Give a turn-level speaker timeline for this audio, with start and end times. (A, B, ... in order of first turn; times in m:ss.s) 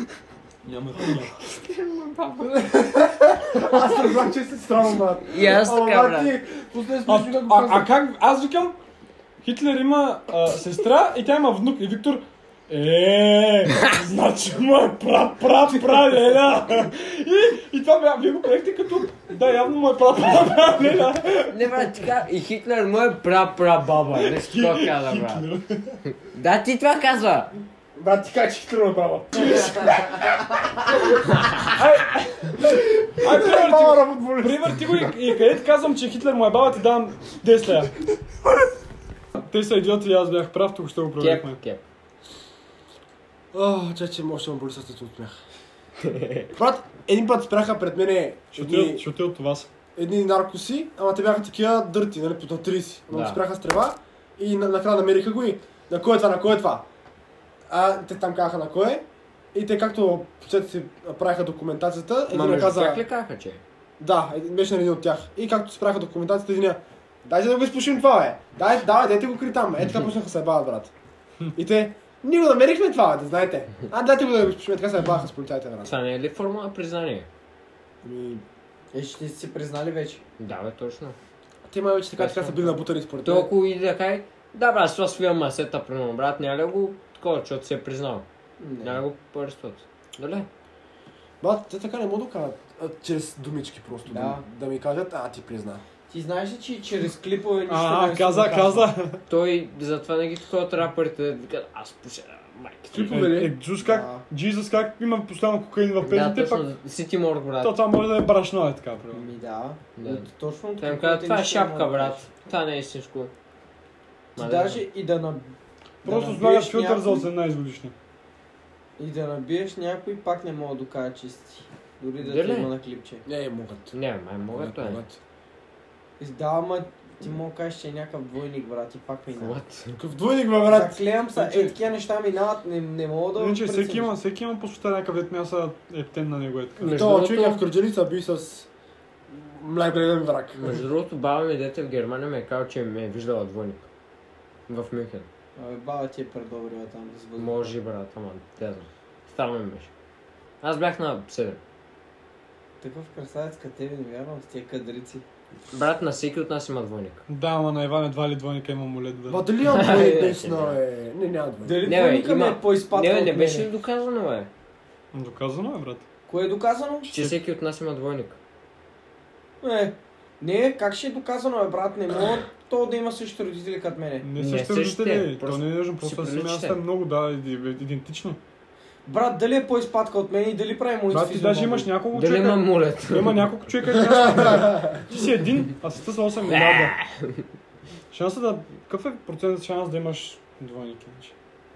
0:00.6-0:01.3 A
0:01.4-0:02.7 B
0:02.8-0:07.9 C
0:05.3-0:06.3 B
0:07.1-0:08.8 A
0:09.4-0:22.0 A
0:21.5-0:25.4 B
0:24.2-0:26.0 A
0:26.0-0:27.5 B
0:27.9-0:30.7 C
0:29.5-0:29.9 A
0:31.7-0:37.9 A
0:32.6-0:35.1 C
0:39.4-0:41.6 A
0:41.2-0:41.8 B
0:43.5-0:45.4 C
0:46.0-0:46.5 B
0:46.5-0:49.0 C
0:48.5-0:49.7 A
0:50.0-0:56.8 C
0:53.1-0:53.4 B
0:57.7-1:03.0 C
1:02.3-1:03.6 B
1:04.0-1:10.9 C
1:11.5-1:15.9 C
1:15.8-1:17.3 B
1:18.0-1:18.4 C
1:18.9-1:20.2 D
1:20.4-1:21.2 B
1:21.7-1:23.5 C
1:22.2-1:28.2 B
1:28.6-1:29.0 D
1:28.8-1:30.5 B
1:31.4-1:35.8 C
1:34.1-1:34.4 D
1:36.1-1:38.9 D
1:37.7-1:39.2 A
1:39.3-1:43.3 B
1:42.9-1:43.6 C
1:43.1-1:46.6 A
1:43.8-1:44.2 D
1:46.0-1:47.7 B
1:47.6-1:49.2 A
1:49.1-1:52.2 D
1:50.0-1:53.3 B
1:54.4-1:54.8 B
1:54.4-1:55.5 D
1:56.0-1:57.3 D
1:56.0-1:57.9 A
1:59.0-2:03.2 D
2:02.2-2:02.7 B
2:03.2-2:04.0 C
2:03.9-2:05.0 B
2:04.5-2:05.2 C
2:06.2-2:09.6 D
2:09.4-2:10.0 B
2:10.0-2:11.8 C
2:10.7-2:14.1 D
2:13.4-2:16.9 A
2:16.8-2:17.6 B
2:16.8-2:18.7 C
2:19.3-2:20.8 C
2:20.6-2:23.9 B
2:24.7-2:25.3 B
2:25.6-2:27.7 D
2:27.4-2:29.9 B
2:30.6-2:31.6 B
2:32.8-2:35.2 D
2:35.7-2:37.2 B
2:37.3-2:39.4 A
2:39.3-2:41.9 C
2:39.6-2:40.8 B
2:41.6-2:43.7 D
2:41.8-2:44.5 B
2:45.1-2:46.0 A
2:46.3-2:47.1 D
2:47.0-2:48.4 B
2:49.6-2:54.3 D
2:54.2-2:58.4 A
2:54.4-2:56.8 B
2:59.1-3:01.9 D
3:01.1-3:06.9 A
3:02.1-3:03.5 B
3:04.2-3:05.0 C
3:06.4-3:07.4 B
3:08.1-3:11.3 A